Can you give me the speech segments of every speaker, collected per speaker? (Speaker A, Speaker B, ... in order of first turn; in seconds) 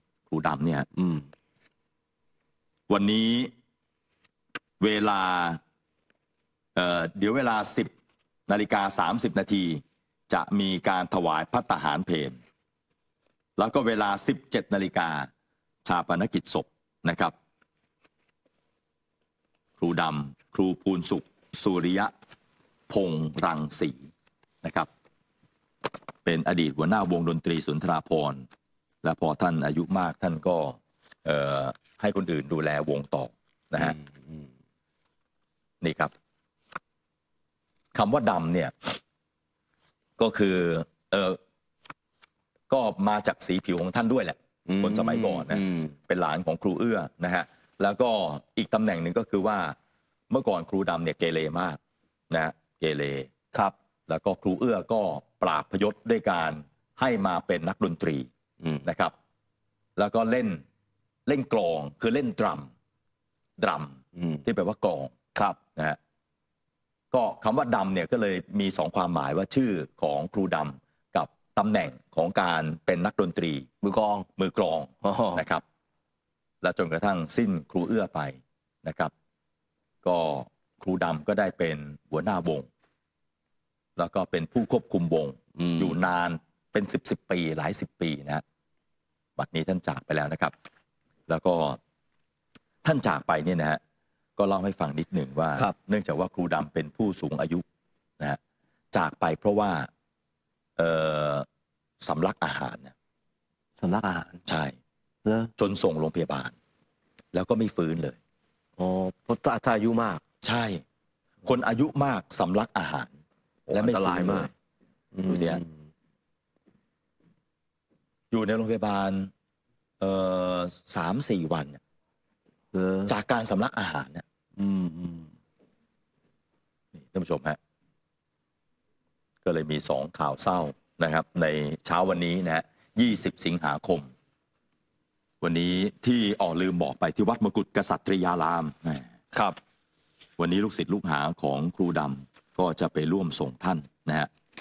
Speaker A: 0.3-0.9, 2.9-3.5, 4.8-5.6, 6.8-7.9, 8.5-12.4, 13.6-15.3, 15.8-17.4, 19.8-22.1, 22.9-24.1, 24.6-24.9, 26.2-28.4, 29.0-34.0, 35.8-36.1, 37.9-39.0, 40.2-41.4, 42.7-49.8, 50.3-51.8, 52.3-53.3, 54.1-58.3, 58.8-59.1, 60.0-60.6, 61.3-62.7, 63.6-65.1, 67.1-73.7, 74.4-75.6, 76.6-79.1, 80.0-82.7, 84.0-88.4, 89.4-90.5, 91.3-91.8, 92.8-93.8, 94.4-97.6, 98.9-99.9, 100.8-101.5, 102.0-102.9, 104.5-104.8, 105.6-106.5, 107.3-108.2, 110.4-110.8, 111.5-113.1, 113.7-114.5, 115.3-115.6, 118.3-119.3, 120.0-121.8, 123.1-124.2, 126.9-127.6, 129.4-134.1, 135.4-139.1, 140.4-144.3
Speaker B: 0.9-1.3, 34.0-34.4, 44.7-45.9, 73.8-74.3, 75.0-75.4, 85.6-85.9, 103.8-104.5, 105.2-105.5, 108.8-110.2, 113.7-114.5, 115.1-115.7, 122.7-123.1, 124.6-125.3